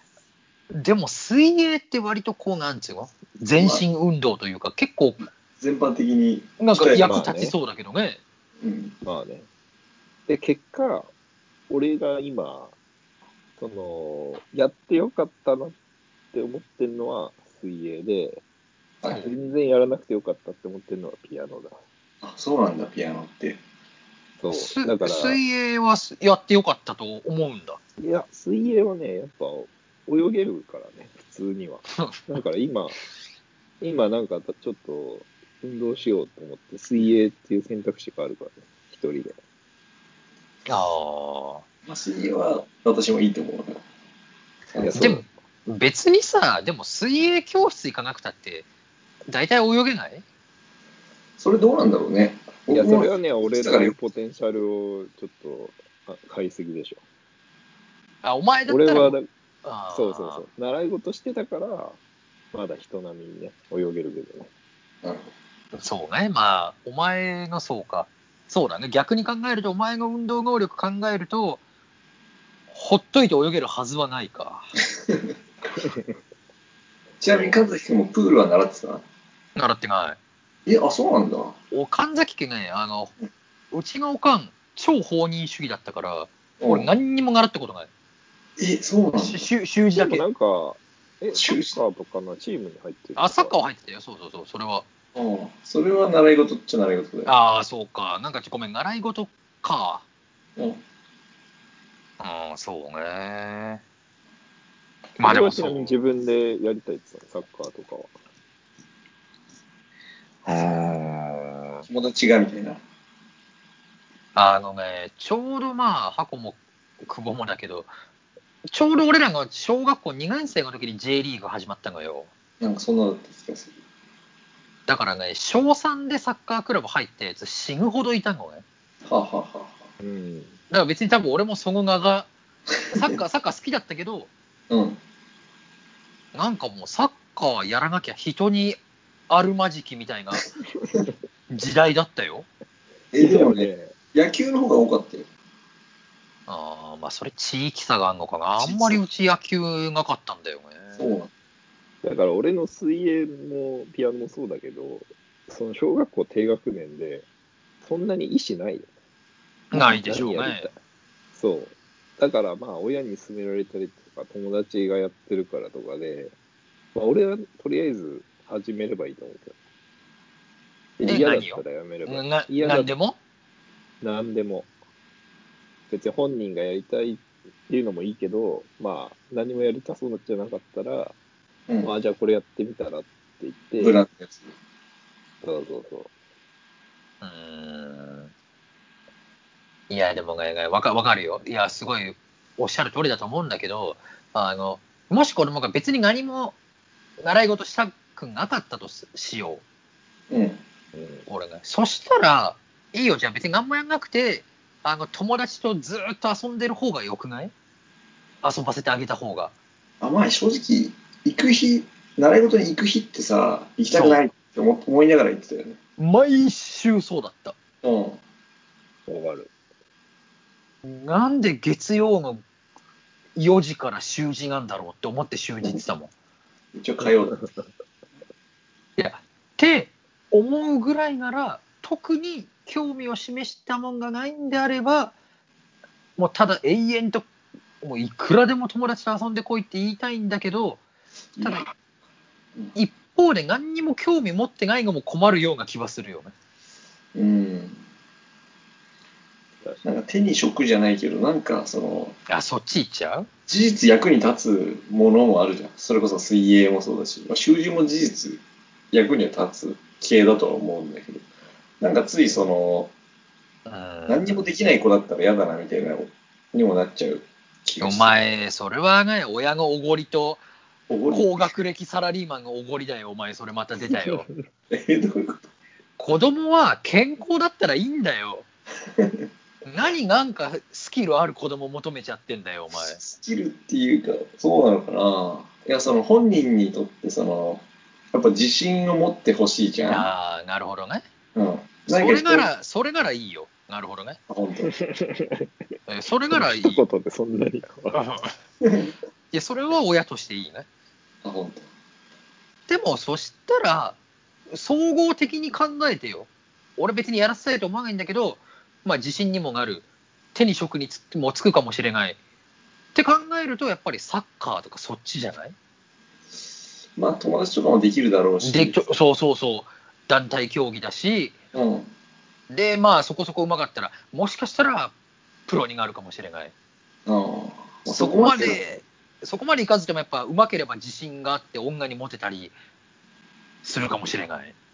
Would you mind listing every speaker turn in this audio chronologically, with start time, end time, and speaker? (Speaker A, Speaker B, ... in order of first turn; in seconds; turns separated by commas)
Speaker A: 0.7-5.2, Speaker B: 3.5-3.8, Speaker B: 5.6-7.1, Speaker A: 6.6-8.2, Speaker C: 7.0-7.5, Speaker B: 8.6-8.9, Speaker C: 9.0-9.5, Speaker C: 10.3-11.1, Speaker C: 11.7-12.7, Speaker C: 13.6-15.7, Speaker C: 16.3-18.4, Speaker A: 19.1-19.3, Speaker C: 19.2-21.8, Speaker B: 22.2-23.6, Speaker C: 24.4-25.4, Speaker A: 24.5-27.8, Speaker C: 28.0-33.0, Speaker C: 33.8-39.4, Speaker A: 40.6-41.6, Speaker B: 41.9-43.8, Speaker B: 44.7-45.0, Speaker C: 44.8-45.2, Speaker A: 44.9-48.7, Speaker A: 49.3-50.2, Speaker B: 51.4-53.9, Speaker C: 52.7-57.0, Speaker A: 58.2-60.4, Speaker C: 58.7-59.3, Speaker C: 59.9-62.0, Speaker C: 62.5-64.5, Speaker B: 65.0-65.3, Speaker A: 65.7-71.6, Speaker A: 72.7-74.7, Speaker C: 75.8-76.2, Speaker B: 77.2-79.0, Speaker A: 79.5-80.2, Speaker B: 80.7-81.5, Speaker A: 81.7-83.1, Speaker A: 83.7-87.9, Speaker B: 86.6-86.9, Speaker B: 88.6-89.5, Speaker A: 89.1-90.2, Speaker C: 90.0-93.5, Speaker B: 91.3-91.8, Speaker A: 93.2-94.8, Speaker B: 95.1-97.3, Speaker A: 97.2-100.0, Speaker A: 102.2-103.8, Speaker A: 105.2-106.0, Speaker C: 105.2-108.1, Speaker A: 110.5-111.8, Speaker B: 111.9-112.8, Speaker A: 114.3-117.9, Speaker A: 118.6-122.3, Speaker B: 122.6-123.7, Speaker A: 124.9-128.6, Speaker B: 129.1-129.7, Speaker C: 130.0-130.6, Speaker A: 130.7-132.3, Speaker A: 132.9-134.3, Speaker B: 134.7-135.0, Speaker A: 136.3-138.8, Speaker A: 139.3-140.4, Speaker C: 140.8-141.1, Speaker A: 141.5-142.4, Speaker B: 143.1-145.2, Speaker C: 143.2-143.9, Speaker A: 146.5-151.1, Speaker B: 148.6-149.0, Speaker B: 151.0-151.3, Speaker C: 152.0-157.2, Speaker C: 157.8-158.9, Speaker A: 159.7-160.7, Speaker C: 159.7-160.7, Speaker C: 161.3-166.3, Speaker C: 166.9-169.6, Speaker C: 171.0-172.9, Speaker A: 171.0-173.2, Speaker C: 174.0-174.7, Speaker C: 175.9-181.1, Speaker B: 181.7-181.9, Speaker C: 181.8-184.0, Speaker B: 183.8-184.5, Speaker C: 185.4-186.1, Speaker A: 187.2-188.3, Speaker A: 189.9-196.5, Speaker A: 197.2-199.6, Speaker B: 200.3-200.6, Speaker C: 200.9-201.2, Speaker A: 201.3-207.5, Speaker A: 208.4-209.5, Speaker B: 210.0-215.8, Speaker A: 213.9-214.2, Speaker A: 216.0-217.6, Speaker B: 217.8-218.2, Speaker C: 219.1-219.5, Speaker A: 220.8-222.4, Speaker A: 223.3-226.1, Speaker B: 226.7-227.4, Speaker C: 227.0-227.6, Speaker A: 229.0-235.1, Speaker A: 236.2-237.3, Speaker A: 237.8-240.8, Speaker B: 241.3-241.7, Speaker A: 242.7-246.3, Speaker B: 247.1-247.8, Speaker C: 249.6-249.9, Speaker B: 249.8-252.1, Speaker A: 252.3-253.3, Speaker B: 253.5-258.4, Speaker B: 258.9-261.2, Speaker B: 261.8-262.9, Speaker A: 263.6-264.5, Speaker B: 264.1-268.3, Speaker A: 267.8-270.4, Speaker B: 270.9-271.5, Speaker A: 271.1-274.3, Speaker C: 274.0-274.4, Speaker B: 274.7-275.5, Speaker A: 276.0-278.4, Speaker B: 279.0-279.2, Speaker A: 279.6-283.0, Speaker B: 282.7-290.1, Speaker A: 289.9-291.0, Speaker B: 291.3-292.5, Speaker A: 291.9-294.2, Speaker B: 294.3-294.7, Speaker C: 294.7-295.5, Speaker A: 295.9-296.8, Speaker C: 296.3-298.0, Speaker A: 297.9-298.4, Speaker B: 298.6-298.9, Speaker A: 299.3-300.6, Speaker B: 301.2-301.6, Speaker A: 302.7-304.0, Speaker A: 304.5-312.2, Speaker A: 312.9-315.5, Speaker B: 316.9-318.8, Speaker A: 318.4-321.3, Speaker B: 321.5-321.9, Speaker A: 322.5-324.9, Speaker A: 325.5-326.5, Speaker B: 327.1-328.6, Speaker A: 327.9-332.5, Speaker A: 333.6-334.5